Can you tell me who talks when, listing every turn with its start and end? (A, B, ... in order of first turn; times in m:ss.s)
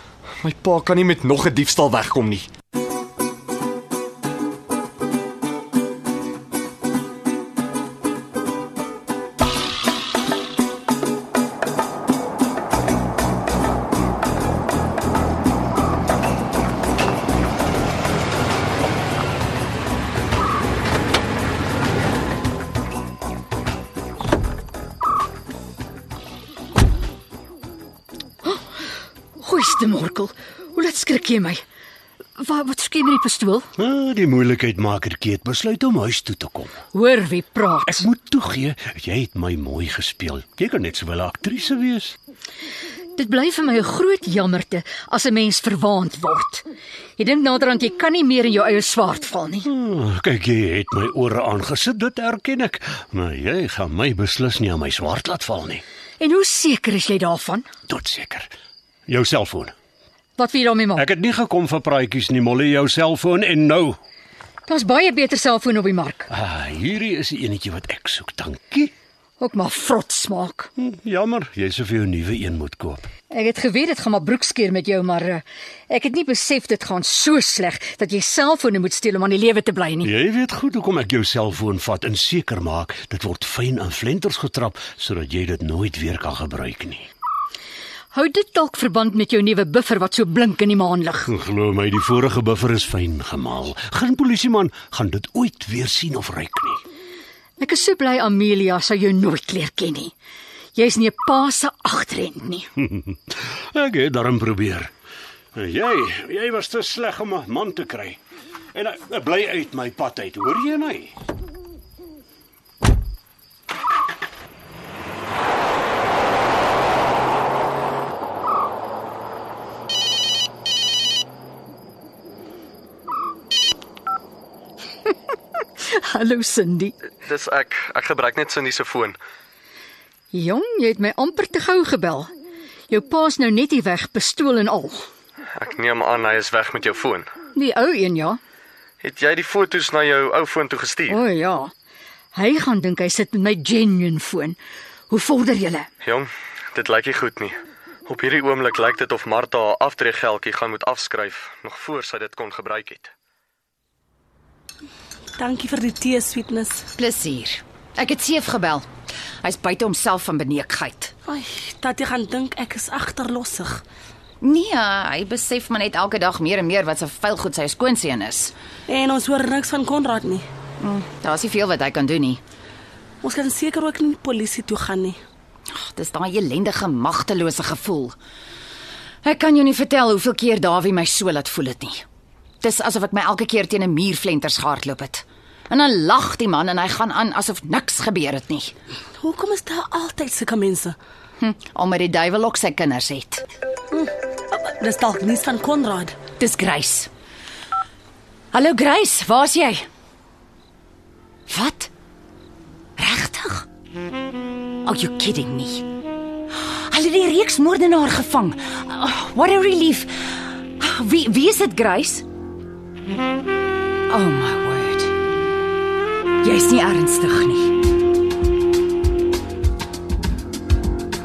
0:00.4-0:02.5 A
0:29.4-0:31.6 B
0:32.4-0:33.7 B
0:33.8-0:36.7 C
0:36.9-0:38.0 B
0:37.8-0:42.2 C
0:43.2-0:46.6 B
0:47.2-0:49.7 B
0:49.6-0:55.8 C
0:56.2-0:57.6 B
0:57.9-0:58.5 C
0:59.1-0:59.7 C
1:00.4-1:01.1 B
1:00.9-1:04.0 C
1:04.7-1:06.3 B
1:06.3-1:08.9 C
1:09.4-1:10.7 B
1:10.8-1:13.1 C
1:13.3-1:20.1 B
1:20.0-1:27.1 C
1:28.1-1:31.3 B
1:31.3-1:36.8 C
1:37.6-1:40.1 B
1:40.8-1:42.6 B
1:42.8-1:44.9 C
1:45.6-1:48.2 C
1:48.7-1:51.2 C
2:05.8-2:06.9 B
2:07.2-2:09.2 A
2:10.3-2:12.3 B
2:12.9-2:15.1 B
2:15.5-2:17.3 A
2:17.5-2:18.4 B
2:19.0-2:21.2 A
2:21.1-2:21.7 B
2:22.3-2:24.6 B
2:25.1-2:25.9 B
2:26.0-2:27.5 A
2:28.1-2:33.1 A
2:35.4-2:36.8 D
2:37.0-2:38.8 E
2:39.4-2:41.1 E
2:41.2-2:43.8 D
2:44.4-2:48.5 E
2:48.9-2:50.4 D
2:50.8-2:52.4 E
2:53.2-2:55.2 D
2:55.7-2:58.2 E
2:59.2-3:02.0 E
3:02.6-3:08.7 E
3:09.2-3:11.0 D
3:11.4-3:13.4 E
3:13.9-3:16.2 D
3:16.4-3:17.1 E
3:18.5-3:19.9 E
3:21.5-3:21.9 E
3:23.0-3:23.6 E
3:24.8-3:25.8 E
3:26.6-3:32.2 E
3:34.1-3:35.2 E
3:36.4-3:37.8 E